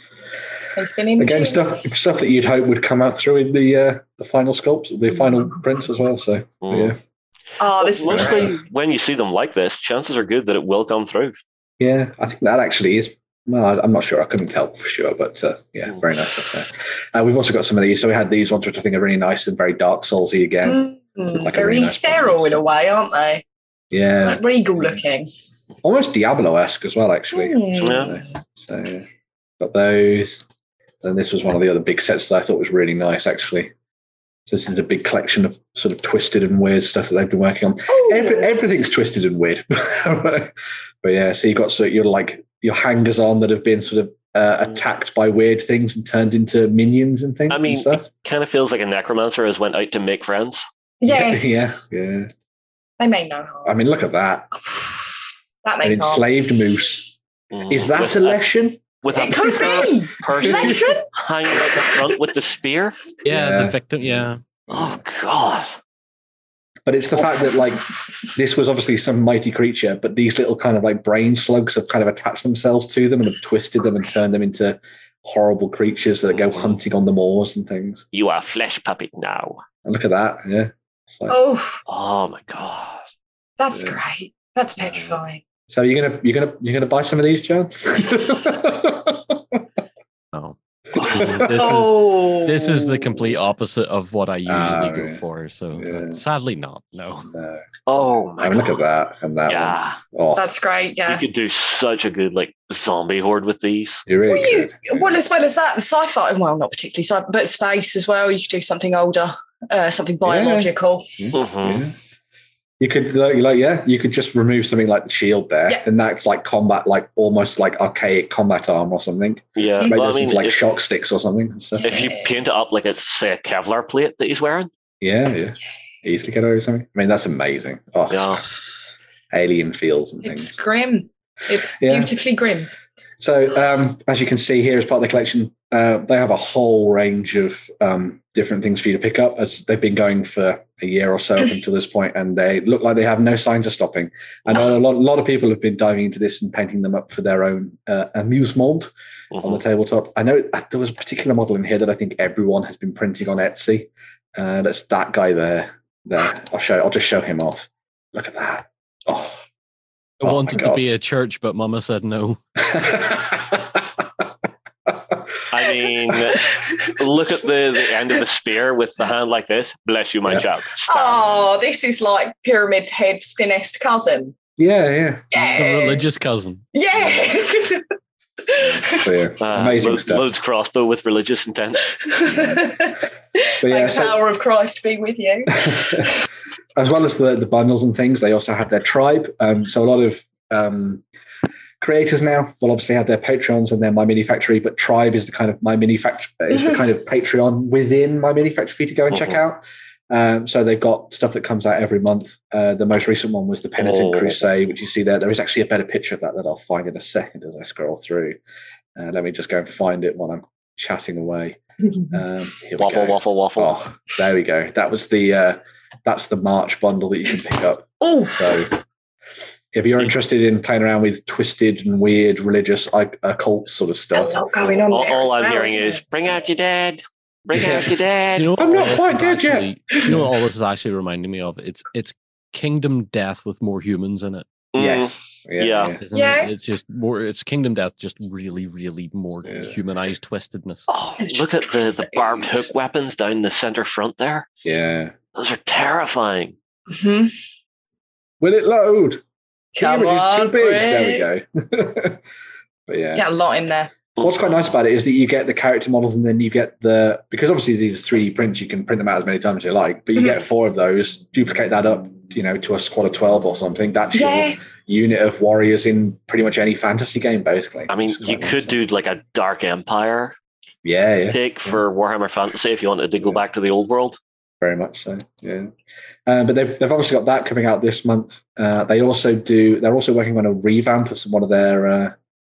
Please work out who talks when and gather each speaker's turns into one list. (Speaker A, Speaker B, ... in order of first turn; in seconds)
Speaker A: 0.8-1.8, 5.2-5.6, 7.6-8.6, 20.6-23.4, 24.2-25.4, 27.3-28.2, 37.9-38.6, 51.0-51.8, 53.0-53.8, 54.7-55.0, 55.6-56.3, 59.1-61.1, 61.6-62.0, 67.2-68.3, 81.3-81.8, 83.6-85.4, 91.5-93.3, 100.3-101.2, 104.3-111.2, 121.8-122.4, 130.2-132.7, 166.4-167.0, 170.9-174.3, 175.3-176.1, 176.7-177.9, 178.5-179.2, 182.0-186.3, 218.0-218.7, 224.1-226.0, 236.1-236.5, 241.2-242.7, 246.9-247.3, 249.8-251.2, 253.1-253.9, 264.1-264.6
Speaker B: 1.2-7.0, 8.1-8.6, 11.8-20.8, 21.4-22.6, 23.9-25.0, 25.8-29.1, 29.6-30.4, 31.0-33.7, 34.5-48.1, 51.1-52.3, 53.6-54.5, 55.8-57.2, 57.7-60.8, 63.3-65.0, 66.9-78.0, 79.8-81.4, 83.7-84.0, 85.7-89.6, 91.1-91.7, 94.5-95.2, 95.8-96.2, 97.3-97.8, 98.4-100.4, 104.1-105.2, 110.2-112.0, 112.8-122.1, 125.0-128.5, 129.3-130.6, 131.8-132.1, 133.2-159.4, 160.2-160.9, 162.6-164.0, 164.9-165.2, 174.6-175.6, 176.9-177.3, 178.6-180.2, 182.3-182.7, 183.6-184.2, 185.6-186.1, 186.8-191.0, 191.8-208.4, 209.0-211.6, 212.1-218.7, 219.7-224.4, 227.5-227.9, 228.6-230.2, 234.8-236.0, 239.4-239.8, 244.7-245.2, 248.4-249.2, 249.8-252.2, 252.9-253.2, 254.2-268.8, 270.8-271.8, 274.6-275.7, 276.3-282.2
Speaker C: 6.6-7.0, 7.8-11.4, 27.8-28.1, 47.5-50.6, 57.5-58.4, 59.0-63.0, 64.7-65.8, 76.3-76.8, 78.1-79.6, 81.9-83.0, 97.9-98.8, 99.5-100.0, 101.1-104.1, 111.3-111.8, 119.6-120.6, 121.8-124.7, 128.1-128.4, 149.3-149.6, 165.5-171.5, 179.4-181.8, 203.8-204.4, 212.8-213.7, 224.9-228.5, 234.7-236.0, 240.9-244.5, 245.3-246.6, 267.9-270.4, 271.3-274.2
Speaker D: 63.2-64.4, 90.3-97.3, 160.2-162.4, 175.6-176.7, 228.4-234.5, 236.0-240.9